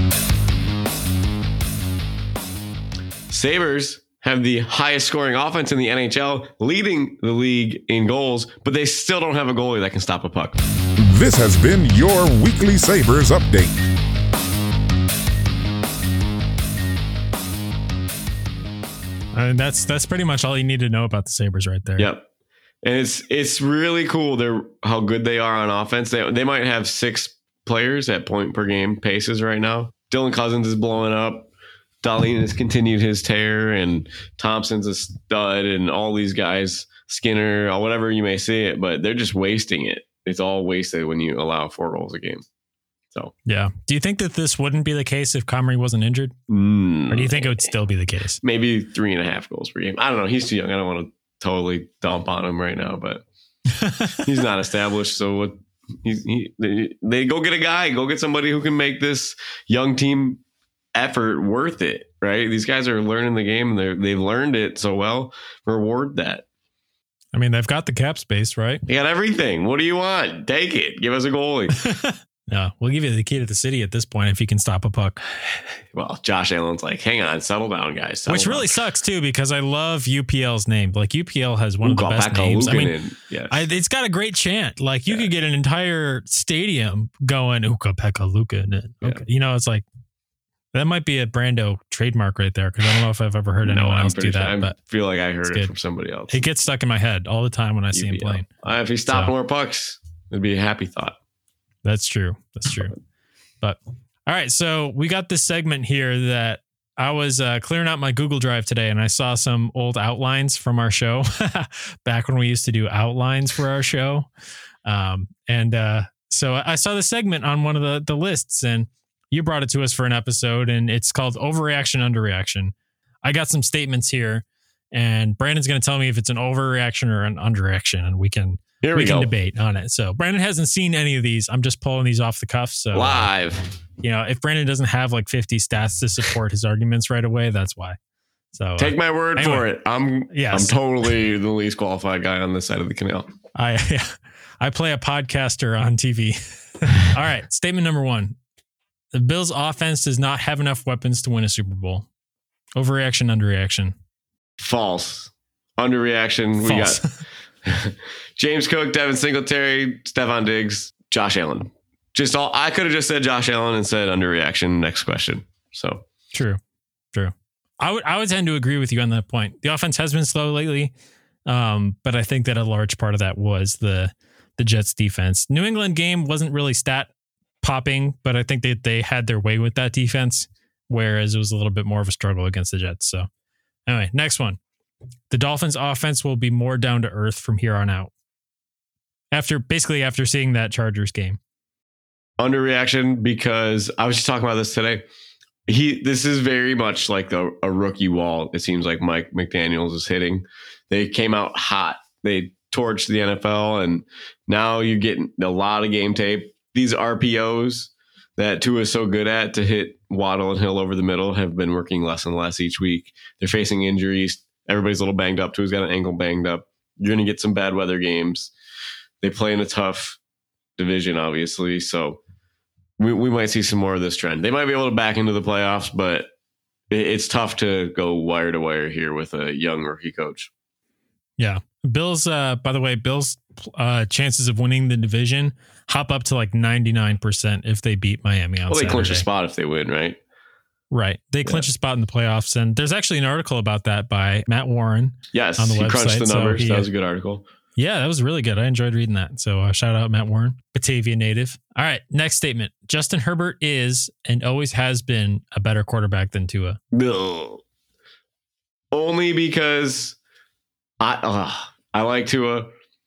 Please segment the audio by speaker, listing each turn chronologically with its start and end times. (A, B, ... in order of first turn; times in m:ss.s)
0:03.3-0:10.6 A
0:11.0-0:13.8 B
0:19.3-0:22.1 C
0:22.0-0:22.2 A
0:22.8-0:31.5 A
0:32.0-0:42.4 A
0:43.5-0:46.3 C
0:46.5-0:47.6 A
0:47.1-0:48.4 C
0:48.4-0:53.2 A
0:53.8-0:54.1 C
0:54.2-1:00.4 A
1:01.0-1:06.4 A
1:07.3-1:08.8 C
1:08.9-1:11.8 A
1:11.8-1:15.2 C
1:15.9-1:18.8 A
1:18.3-1:22.9 C
1:21.8-1:23.6 A
1:23.5-1:29.8 C
1:30.7-1:34.8 C
1:33.6-1:36.4 A
1:36.3-1:38.5 C
1:37.9-1:41.2 A
1:41.8-1:43.0 C
1:43.6-1:54.3 C
1:54.8-2:13.3 C
2:08.8-2:09.3 A
2:12.9-2:13.6 A
2:14.0-2:18.0 C
2:18.5-2:19.7 C
2:18.8-2:23.3 A
2:20.3-2:20.7 C
2:23.6-2:28.4 C
2:29.1-2:32.1 C
2:32.8-2:33.9 C
2:34.6-2:37.0 A
2:36.6-2:37.1 C
2:37.6-2:46.0 A
2:46.3-2:46.6 C
2:47.1-2:50.9 C
2:51.4-2:57.1 C
2:57.6-3:03.3 C
3:03.9-3:04.6 C
3:05.3-3:08.1 C
3:09.3-3:11.4 C
3:12.4-3:15.0 A
3:15.7-3:38.5 A
3:39.2-3:40.2 A
3:40.8-3:42.2 A
3:43.0-3:46.3 A
3:46.9-3:50.5 A
3:51.4-3:59.3 C
3:58.7-4:00.2 A
4:00.9-4:06.9 C
4:05.3-4:07.4 A
4:07.8-4:16.8 C
4:16.9-4:17.6 A
4:18.9-4:20.2 A
4:21.0-4:22.7 A